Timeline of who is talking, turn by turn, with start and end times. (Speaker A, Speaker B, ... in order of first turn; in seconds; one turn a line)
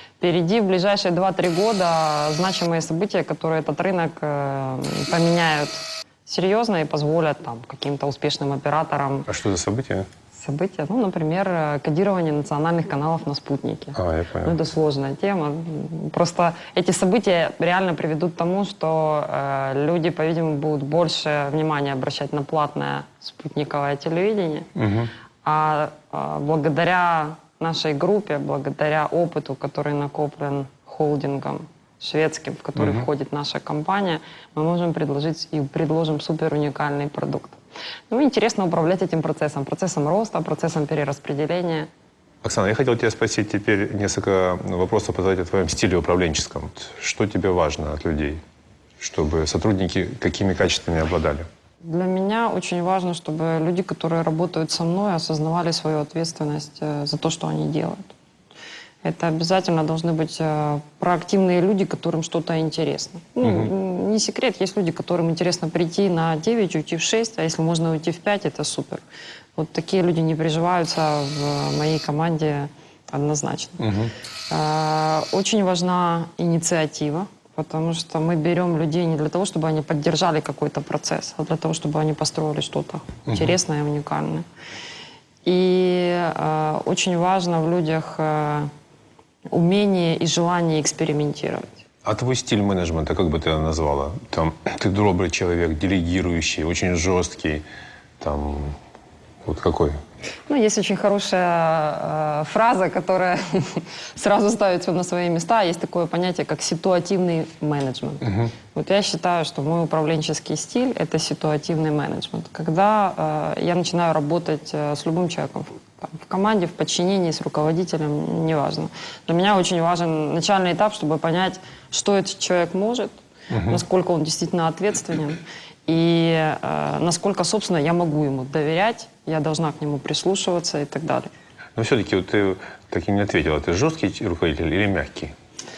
Speaker A: 0.2-9.3
Speaker B: 9.3-10.1
Speaker A: 10.3-24.7
Speaker B: 13.9-14.6
Speaker B: 24.8-25.1
Speaker A: 25.4-41.9
Speaker B: 32.8-33.0
Speaker B: 42.4-48.4
Speaker B: 49.0-51.5
Speaker A: 51.8-58.1
Speaker A: 59.0-69.0
Speaker B: 63.4-63.7
Speaker A: 69.5-73.9
Speaker B: 73.8-74.1
Speaker A: 74.5-84.4
Speaker B: 83.3-83.5
Speaker A: 85.4-88.7
Speaker A: 89.5-91.8
Speaker B: 92.0-97.6
Speaker B: 98.2-98.8
Speaker B: 99.4-100.0
Speaker A: 100.5-123.1
Speaker B: 108.2-108.5
Speaker B: 123.5-123.8
Speaker A: 123.7-131.3
Speaker B: 131.8-135.3